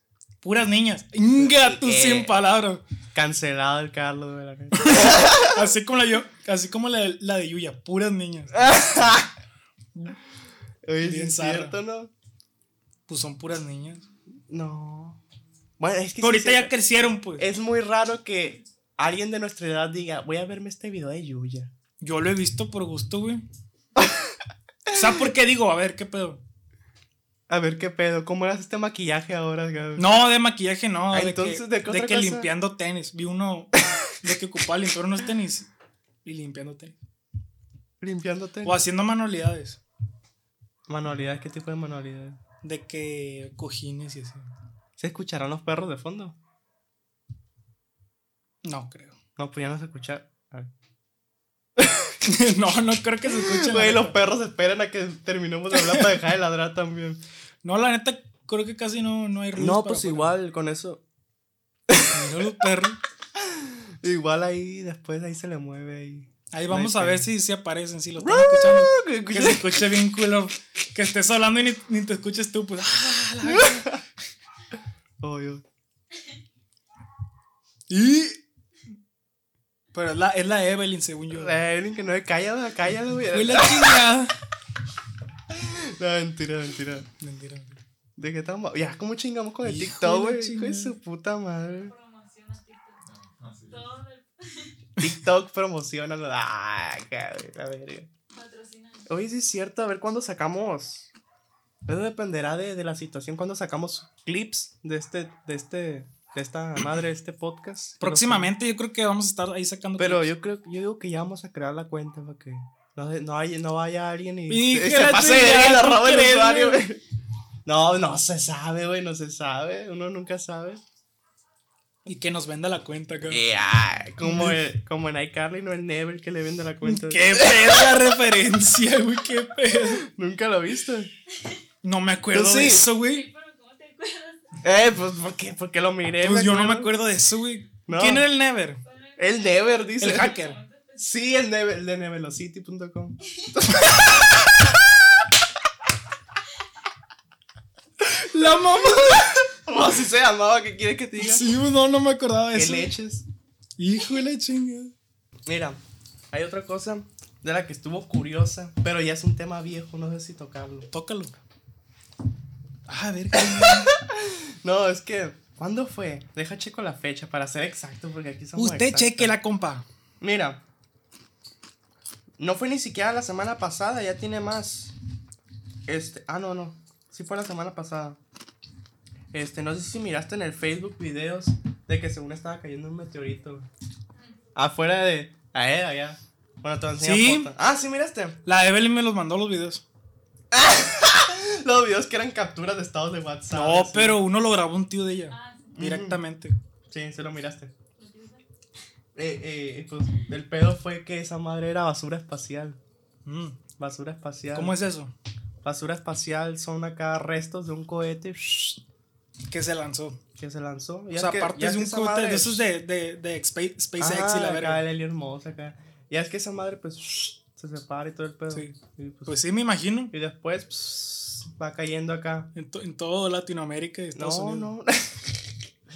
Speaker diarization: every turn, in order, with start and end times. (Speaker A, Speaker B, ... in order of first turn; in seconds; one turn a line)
Speaker A: 0.4-2.8
Speaker B: 1.4-2.4
Speaker B: 3.1-5.7
Speaker A: 4.8-8.7
Speaker B: 8.5-9.3
Speaker B: 10.8-12.1
Speaker A: 11.0-11.8
Speaker A: 13.1-14.1
Speaker B: 14.5-15.2
Speaker B: 15.8-16.7
Speaker A: 16.2-17.5
Speaker B: 17.4-21.7
Speaker A: 22.0-23.4
Speaker B: 24.0-24.4
Speaker B: 24.9-25.2
Speaker A: 24.9-26.4
Speaker B: 27.5-30.1
Speaker A: 30.0-35.7
Speaker B: 31.1-32.5
Speaker A: 36.2-37.0
Speaker B: 38.0-38.8
Speaker A: 38.6-39.8
Speaker B: 40.9-42.4
Speaker A: 42.6-44.5
Speaker B: 45.0-46.4
Speaker A: 48.6-49.2
Speaker B: 49.4-50.7
Speaker B: 51.8-52.1
Speaker A: 52.2-54.2
Speaker B: 53.3-57.2
Speaker A: 55.8-56.1
Speaker A: 57.6-60.3
Speaker B: 59.5-61.0
Speaker B: 61.9-62.4
Speaker A: 62.1-63.0
Speaker B: 63.4-67.3
Speaker A: 66.5-74.0
Speaker B: 68.2-69.9
Speaker B: 73.4-74.0
Speaker B: 75.2-75.6
Speaker A: 77.9-78.4
Speaker A: 79.9-81.6
Speaker B: 81.3-84.1
Speaker A: 83.3-84.4
Speaker B: 85.5-87.1
Speaker A: 87.2-87.8
Speaker B: 88.2-91.9
Speaker A: 89.6-91.0
Speaker C: 91.7-94.8
Speaker B: 95.0-98.1
Speaker C: 98.3-99.1
Speaker B: 99.1-101.1
Speaker B: 101.9-108.5
Speaker A: 108.0-110.3
Speaker B: 110.0-117.0
Speaker A: 114.5-116.8
Speaker B: 117.7-120.8
Speaker A: 122.1-123.4
Speaker B: 123.3-127.9
Speaker A: 124.2-124.6
Speaker A: 126.8-130.1
Speaker B: 129.9-131.1
Speaker A: 131.8-133.3
Speaker B: 132.3-132.9
Speaker C: 132.9-134.6
Speaker B: 134.6-136.9
Speaker A: 136.2-138.8
Speaker B: 137.9-138.3
Speaker C: 138.8-141.1
Speaker B: 139.2-140.4
Speaker A: 140.0-140.6
Speaker B: 141.0-145.3
Speaker A: 148.1-149.4
Speaker B: 148.3-151.5
Speaker A: 151.2-152.9
Speaker B: 152.5-153.3
Speaker A: 153.8-154.9
Speaker B: 155.5-155.8
Speaker B: 156.3-160.9
Speaker A: 160.9-161.3
Speaker A: 162.9-163.9
Speaker B: 163.3-169.3
Speaker A: 168.6-169.8
Speaker B: 170.2-170.6
Speaker B: 172.4-174.9
Speaker B: 175.9-178.2
Speaker B: 179.3-183.7
Speaker B: 184.6-188.4
Speaker A: 187.0-187.5
Speaker A: 188.4-189.8
Speaker B: 190.5-194.2
Speaker A: 193.5-196.6
Speaker C: 195.3-195.8
Speaker B: 195.8-196.2
Speaker B: 196.9-197.7
Speaker C: 198.0-198.4
Speaker B: 199.2-202.8
Speaker A: 203.2-203.6
Speaker B: 203.8-204.8
Speaker A: 204.5-205.1
Speaker B: 205.6-208.8
Speaker A: 209.5-210.2
Speaker B: 210.4-212.7
Speaker A: 211.2-214.8
Speaker B: 214.0-219.4
Speaker A: 218.5-220.1
Speaker B: 220.1-222.5
Speaker A: 222.6-224.7
Speaker B: 224.2-225.5